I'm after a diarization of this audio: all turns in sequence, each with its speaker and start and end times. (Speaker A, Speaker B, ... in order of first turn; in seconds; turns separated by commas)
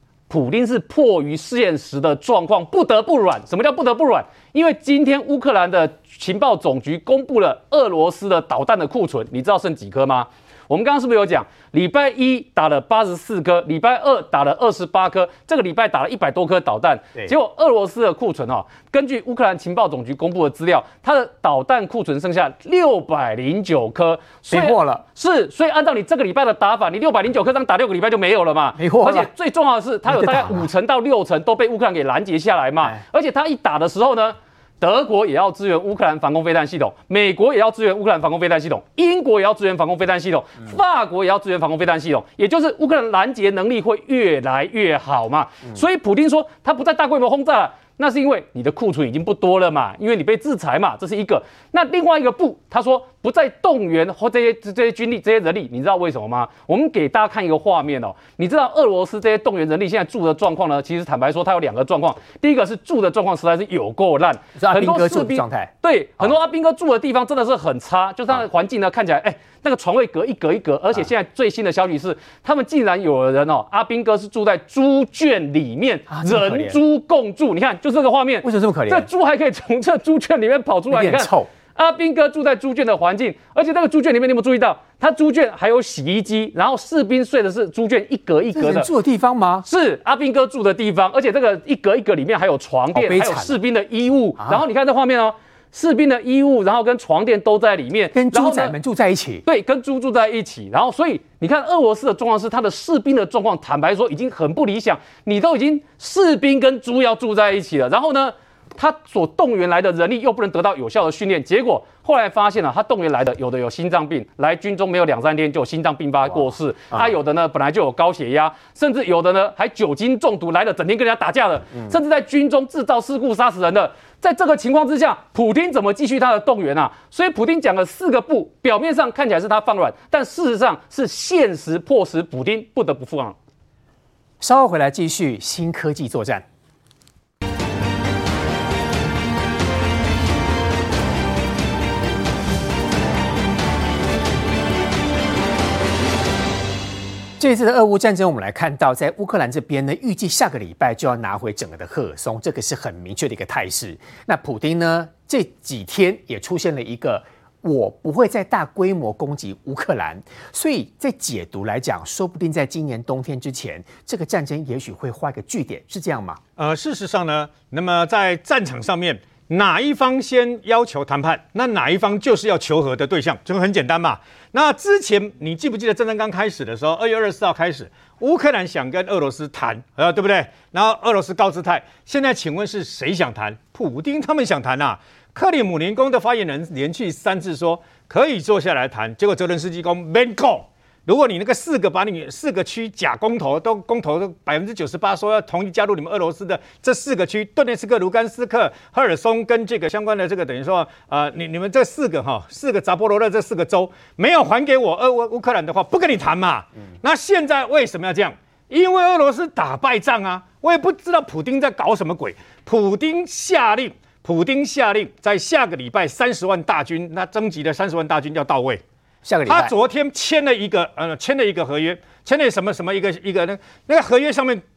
Speaker A: 0.3-88.9, Speaker B: 24.5-25.0, Speaker B: 28.8-29.3, Speaker B: 30.1-30.7, Speaker B: 64.6-66.3, Speaker B: 76.1-76.8, Speaker B: 78.4-79.1, Speaker B: 80.9-81.5, Speaker B: 88.5-89.7, Speaker A: 89.7-98.8, Speaker B: 92.9-93.6, Speaker B: 94.4-94.6, Speaker B: 98.1-99.4, Speaker A: 99.5-133.4, Speaker B: 134.4-136.4, Speaker B: 147.4-166.4, Speaker C: 166.6-218.8, Speaker B: 219.2-219.7, Speaker C: 219.5-224.6